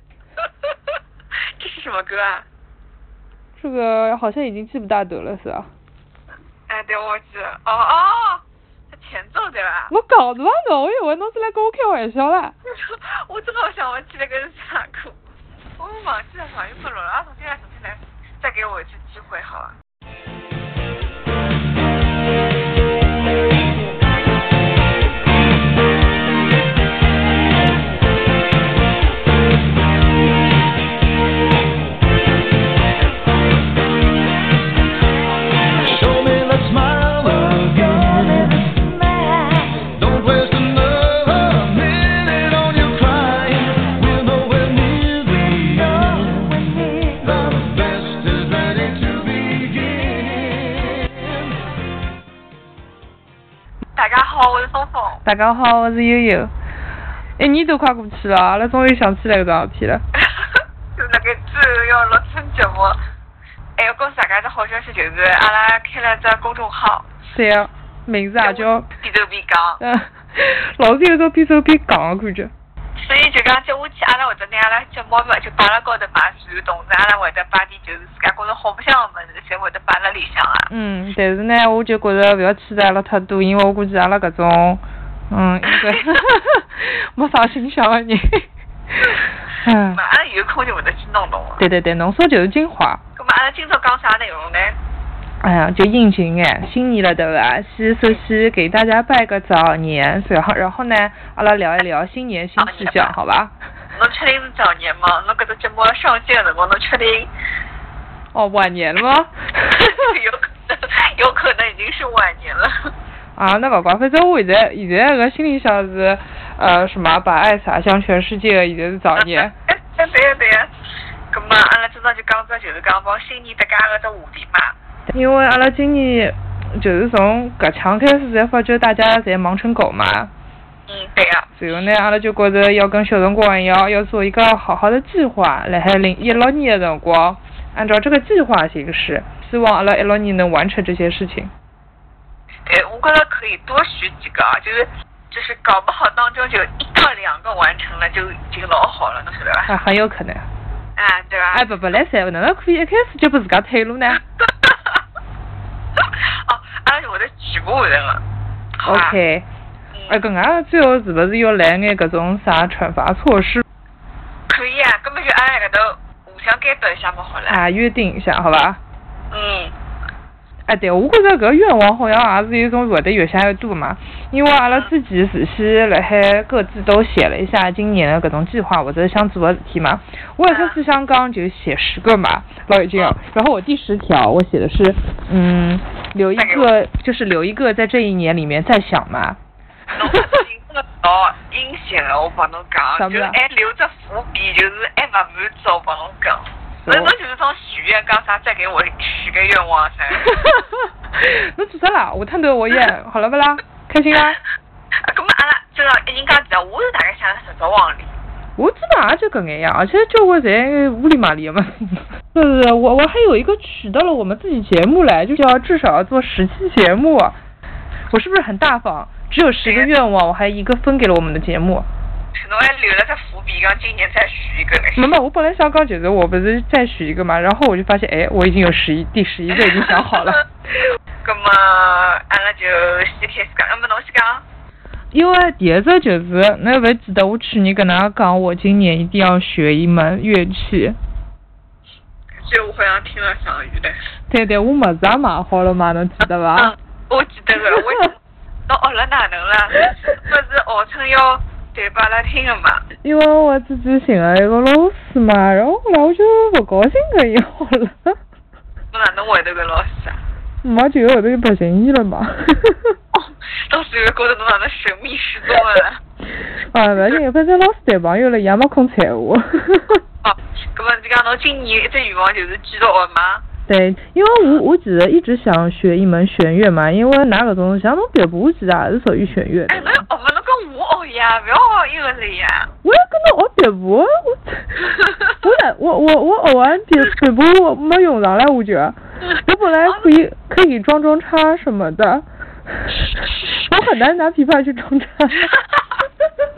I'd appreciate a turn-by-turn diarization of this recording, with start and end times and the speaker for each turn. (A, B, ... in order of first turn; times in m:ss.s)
0:01.6-0:02.5 A
0:03.6-0:05.7 B
0:06.7-0:09.9 A
0:09.9-0:12.6 B
0:12.7-0:15.2 A
0:15.8-0:19.8 A
0:35.7-0:38.9 C
0:39.8-0:51.1 C
0:54.0-0:55.2 A
0:55.2-0:56.5 B
0:57.4-1:00.0 B
1:00.2-1:03.0 A
1:03.8-1:07.1 A
1:07.3-1:08.9 B
1:08.4-1:09.8 A
1:09.8-1:12.5 B
1:13.0-1:20.7 A
1:20.7-1:30.0 B
1:25.7-1:26.2 A
1:29.9-1:31.6 A
1:31.6-1:33.0 B
1:33.2-1:34.8 A
1:35.4-1:43.5 B
1:42.6-1:43.1 A
1:44.0-1:47.3 A
1:48.3-1:50.1 B
1:49.7-1:52.9 A
1:53.4-1:59.5 B
1:59.2-2:00.7 A
2:01.3-2:04.8 A
2:05.1-2:10.3 B
2:10.9-2:11.5 A
2:11.6-2:21.5 B
2:22.7-2:29.7 A
2:29.7-2:30.5 B
2:31.0-2:31.7 A
2:31.5-2:34.2 B
2:34.4-2:35.0 A
2:36.0-2:38.2 A
2:38.8-2:39.2 A
2:38.8-2:39.5 B
2:39.9-2:40.2 A
2:40.1-2:43.6 B
2:44.5-2:47.6 A
2:47.5-2:48.8 B
2:49.3-2:49.8 A
2:50.7-3:09.4 B
3:00.5-3:00.8 A
3:06.4-3:06.7 A
3:10.0-3:20.6 A
3:10.0-3:10.4 B
3:13.0-3:13.4 B
3:16.8-3:17.1 B
3:20.2-3:24.4 B
3:25.0-3:28.1 A
3:28.6-3:37.4 B
3:38.1-3:41.9 B
3:39.6-3:39.9 A
3:42.4-3:45.1 A
3:45.0-3:50.4 B
3:49.6-3:50.4 A
3:51.2-3:54.4 A
3:55.1-4:01.0 B
4:02.4-4:04.0 A
4:04.3-4:06.7 B
4:06.6-4:08.2 A
4:07.7-4:08.0 B
4:08.7-4:12.8 A
4:13.0-4:18.2 B
4:18.9-4:20.2 A
4:20.6-4:23.0 B
4:23.1-4:26.0 A
4:26.7-4:30.0 B
4:30.2-4:33.4 A
4:33.7-4:40.1 B
4:39.7-4:42.7 A
4:42.8-4:55.6 B
4:44.9-4:45.3 A
4:55.5-4:55.8 A